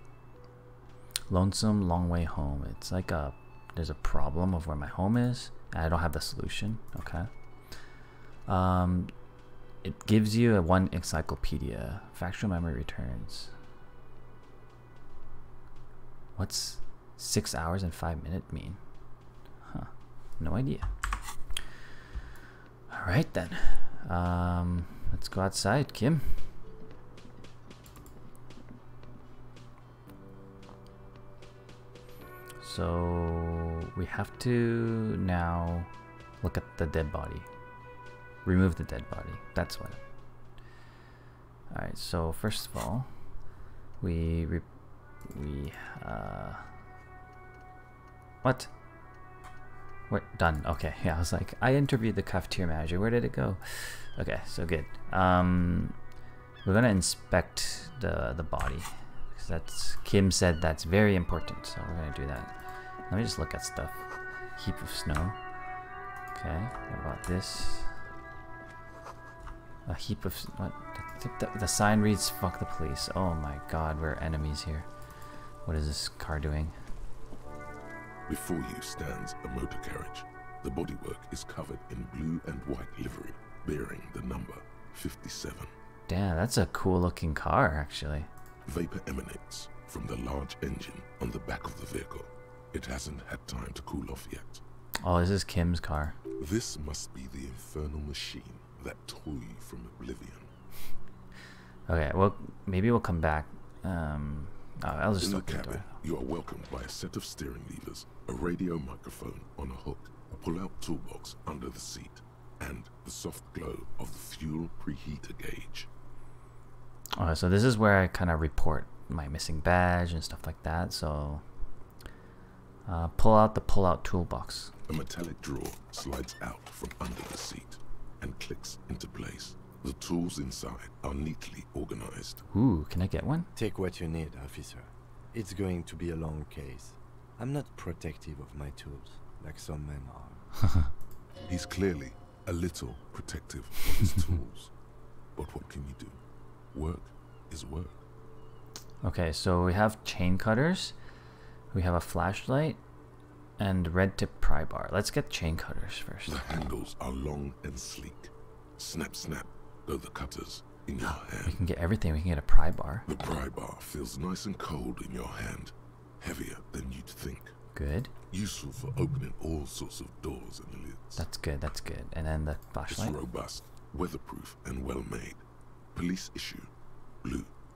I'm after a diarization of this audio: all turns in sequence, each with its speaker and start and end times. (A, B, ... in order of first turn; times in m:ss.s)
0:01.3-0:07.3 A
0:08.5-0:09.1 A
0:09.8-0:13.5 A
0:16.4-0:18.8 A
0:19.7-0:20.9 A
0:22.9-0:26.5 A
0:32.6-0:35.9 A
0:36.4-0:37.5 A
0:38.4-0:40.0 A
0:41.7-0:43.1 A
0:44.0-0:44.7 A
0:45.2-0:46.7 A
0:48.4-0:48.7 A
0:50.1-0:56.0 A
0:56.6-1:05.4 A
1:06.3-1:08.0 A
1:09.9-1:14.9 A
1:15.6-1:16.8 A
1:18.3-1:25.7 B
1:26.1-1:28.3 A
1:28.7-1:34.6 B
1:35.0-1:36.2 A
1:36.4-1:40.5 B
1:41.9-1:45.9 A
1:45.2-1:55.9 B
1:57.2-2:01.4 A
2:02.9-2:04.7 A
2:04.9-2:12.5 B
2:12.5-2:13.5 A
2:13.6-2:20.5 C
2:21.5-2:24.7 B
2:25.4-2:26.2 B
2:26.7-2:28.0 B
2:29.0-2:31.0 A
2:31.7-2:32.8 A
2:33.6-2:36.4 A
2:36.3-2:41.6 B
2:41.0-2:43.1 A
2:43.1-2:47.6 B
2:47.7-2:48.1 A
2:48.3-2:51.3 B
2:51.2-2:53.2 A
2:52.9-2:56.7 B
2:57.2-2:57.5 B